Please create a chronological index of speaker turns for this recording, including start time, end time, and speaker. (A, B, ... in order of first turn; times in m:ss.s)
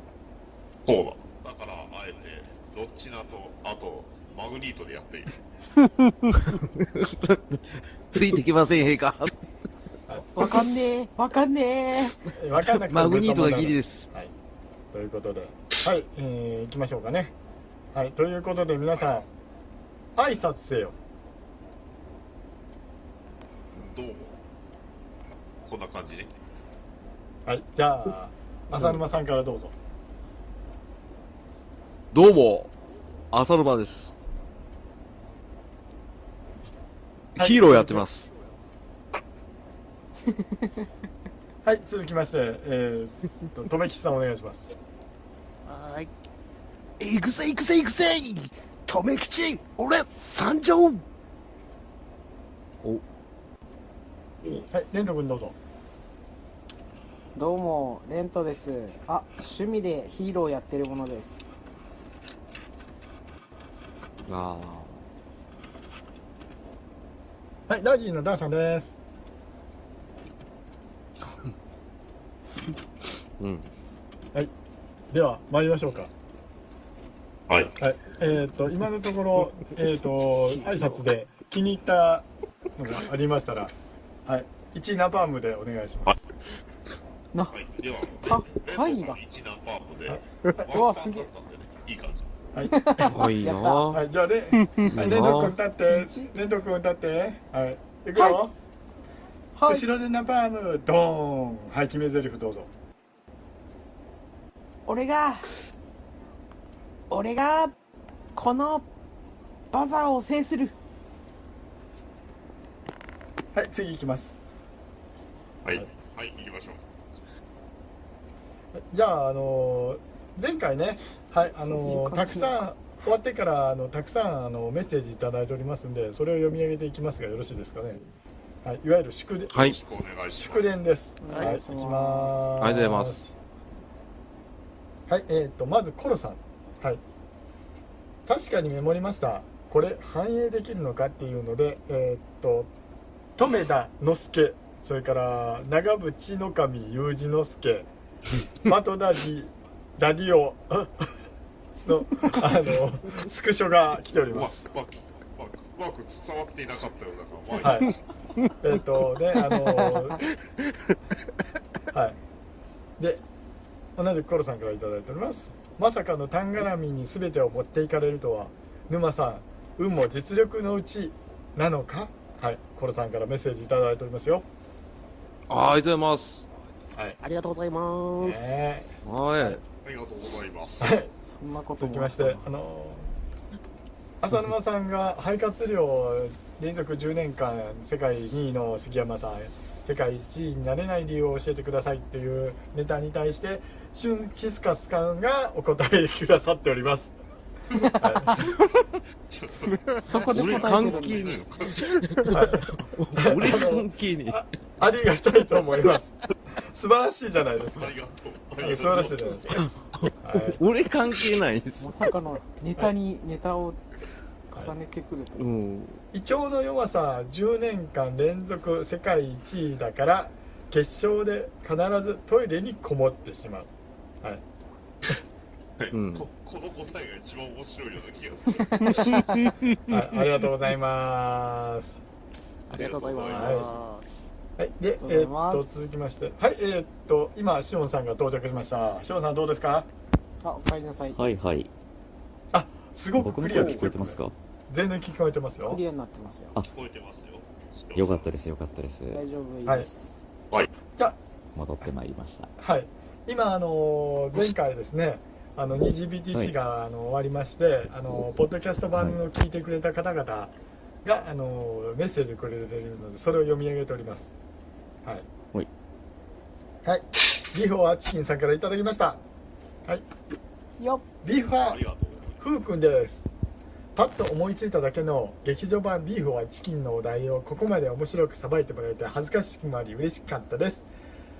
0:00.9-0:05.4 A
0:06.5-0:09.4 B
0:10.4-0:12.2 C
0:12.3-0:14.3 D
0:12.8-0:14.1 B
0:14.9-0:17.3 D
0:17.9-0:19.3 D
0:20.2-0:21.0 D
0:23.7-0:24.4 A
0:25.6-0:26.3 A
0:27.4-0:29.7 D
0:32.1-0:32.7 B
0:33.3-0:34.1 B
0:37.4-0:38.3 B
0:37.4-0:38.0 D
0:41.6-0:44.8 D
0:45.7-0:46.1 E
0:47.0-0:51.0 E
0:54.7-0:55.6 D
0:57.4-1:01.4 C
1:04.3-1:05.0 B
1:07.7-1:08.9 D
1:13.4-1:13.7 B
1:15.1-1:16.1 D
1:17.5-1:17.8 A
1:17.8-1:23.8 D
1:24.2-1:26.2 D
1:27.3-1:27.6 C
1:27.5-1:32.2 A
1:28.2-1:29.2 C
1:30.7-1:31.3 C
1:32.5-1:32.8 D
1:32.7-1:34.0 C
1:33.0-1:34.0 B
1:33.9-1:38.5 D
1:34.9-1:35.6 B
1:35.2-1:36.3 C
1:39.6-1:39.9 C
1:39.7-1:42.7 D
1:44.9-1:45.5 C
1:47.1-1:47.8 C
1:48.3-1:48.9 C
1:49.7-1:50.7 C
1:53.5-1:54.3 D
1:55.6-1:56.8 A
1:58.8-2:08.0 D
2:01.6-2:02.6 C
2:08.6-2:09.8 D
2:09.6-2:10.7 A
2:10.3-2:13.3 D
2:11.2-2:12.5 C
2:11.3-2:11.6 E
2:12.6-2:13.3 B
2:15.1-2:17.0 D
2:18.2-2:22.7 D
2:23.4-2:27.9 D
2:28.6-2:31.1 D
2:31.8-2:34.6 D
2:34.3-2:38.0 A
2:37.6-2:37.9 D
2:38.6-2:40.2 D
2:41.9-2:42.2 D
2:44.0-2:54.4 D
2:55.5-2:56.5 B
2:57.2-2:58.4 E
2:58.2-2:58.9 D
2:59.0-2:59.6 B
2:59.8-3:01.0 A
3:00.8-3:01.1 D
3:01.2-3:02.4 C
3:01.8-3:03.1 D
3:04.2-3:17.1 D
3:17.8-3:18.6 D
3:19.3-3:19.8 A
3:20.0-3:21.3 C
3:20.3-3:24.4 B
3:20.3-3:22.0 A
3:22.3-3:27.9 D
3:27.7-3:29.7 A
3:28.6-3:29.7 D
3:29.6-3:32.1 B
3:30.2-3:30.6 D
3:31.8-3:33.8 C
3:34.5-3:35.4 C
3:35.4-3:36.0 B
3:36.1-3:43.7 D
3:45.8-3:49.2 A
3:45.9-3:46.3 B
3:48.7-3:49.5 C
3:49.9-3:52.0 D
3:52.7-3:54.1 E
3:52.7-3:53.7 A
3:53.3-3:53.7 D
3:54.6-3:59.9 D
3:55.0-3:55.9 C
4:00.4-4:01.2 C
4:01.1-4:01.7 F
4:02.5-4:05.8 D
4:03.2-4:04.4 F
4:05.7-4:06.6 C
4:06.6-4:08.3 A
4:07.9-4:09.2 F
4:09.1-4:10.2 C
4:11.6-4:12.5 F
4:12.6-4:20.5 D
4:18.9-4:19.2 F
4:21.0-4:24.3 D
4:26.8-4:29.2 D
4:30.8-4:31.0 C
4:31.2-4:31.8 D
4:31.6-4:32.4 A
4:32.4-4:33.3 D
4:33.9-4:40.8 D